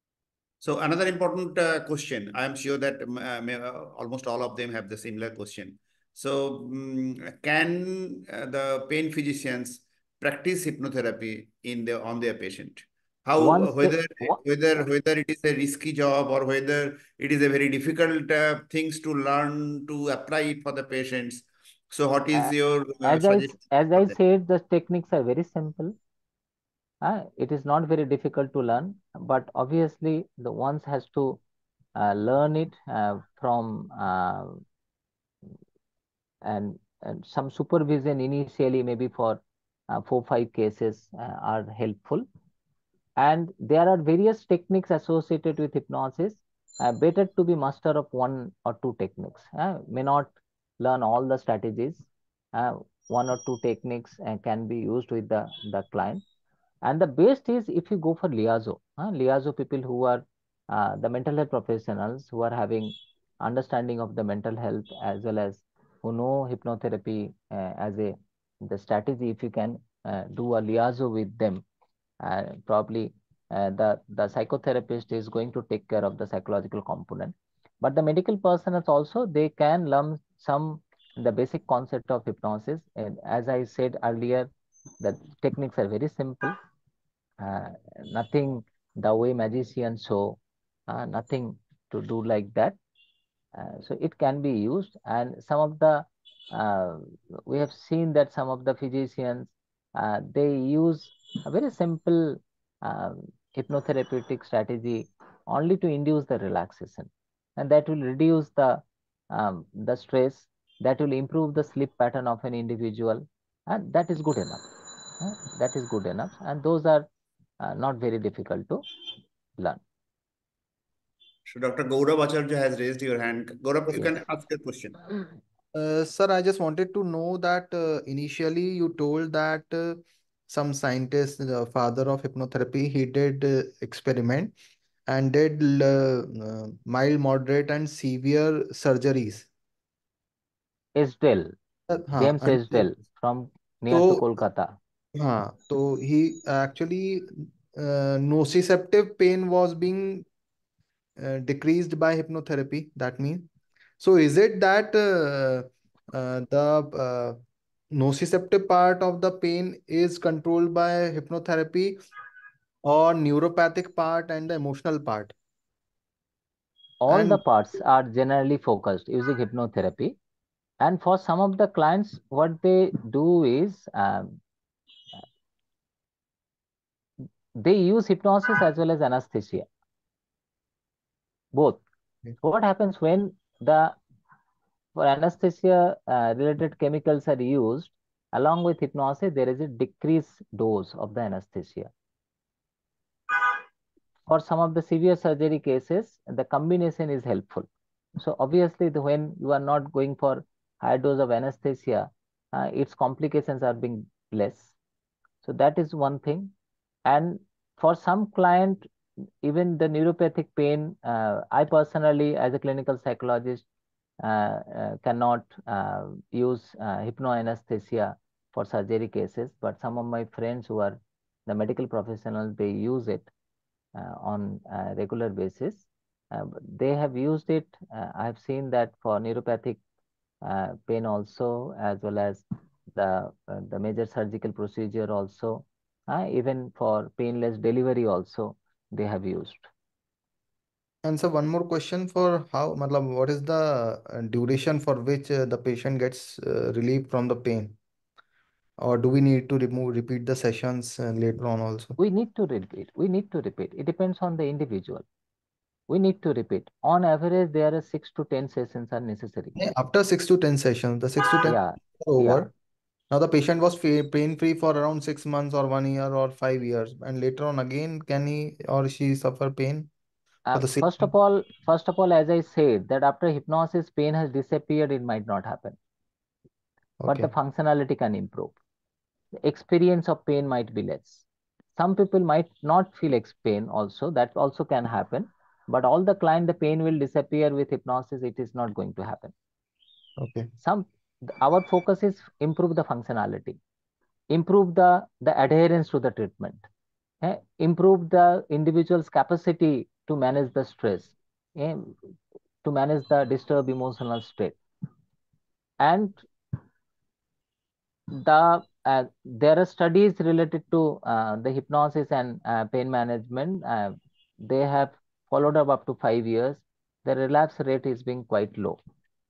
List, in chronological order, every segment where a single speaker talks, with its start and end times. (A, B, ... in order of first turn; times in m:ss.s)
0:00.6-0:24.1 A
0:13.4-0:14.4 B
0:22.3-0:25.9 B
0:27.0-0:31.4 B
0:32.0-0:34.6 B
0:36.4-0:42.2 B
0:43.2-0:56.2 B
0:56.8-1:11.6 B
1:12.2-1:26.6 B
1:27.4-1:32.8 B
1:33.5-1:54.7 B
1:55.2-1:57.1 B
1:57.6-1:58.8 B
2:01.5-2:05.0 A
2:05.7-2:14.5 C
2:15.1-2:19.5 C
2:21.0-2:21.5 B
2:21.9-2:22.9 C
2:22.2-2:24.8 B
2:23.9-2:24.2 C
2:25.1-2:30.2 C
2:31.2-2:33.4 C
2:34.0-2:37.4 C
2:37.9-2:42.0 C
2:42.8-2:45.3 C
2:47.0-2:50.2 B
2:47.1-2:47.4 C
2:50.8-2:54.4 B
2:57.6-2:59.7 B
3:01.5-3:01.8 B
3:02.4-3:04.0 B
3:05.0-3:11.9 B
3:14.3-3:24.7 B
3:25.4-3:26.5 B
3:27.0-3:28.9 B
3:29.4-3:33.6 B
3:34.2-3:43.3 B
3:43.9-3:49.8 B
3:50.4-3:52.4 B
3:52.9-3:59.7 B
4:01.0-4:07.8 C
4:08.8-4:11.9 C
4:12.0-4:15.0 B
4:15.9-4:19.6 B
4:19.6-4:22.5 C
4:21.4-4:22.5 B
4:23.1-4:29.9 C
4:30.4-4:35.8 B
4:30.5-4:31.1 C
4:37.0-4:37.3 C
4:37.1-4:38.5 B
4:39.4-4:41.2 B
4:41.8-4:49.3 B
4:50.2-4:50.5 C
4:50.6-4:53.6 B
4:54.3-4:56.6 B
4:57.2-5:02.0 B
5:02.6-5:04.6 B
5:05.8-5:06.2 B
5:08.1-5:18.8 B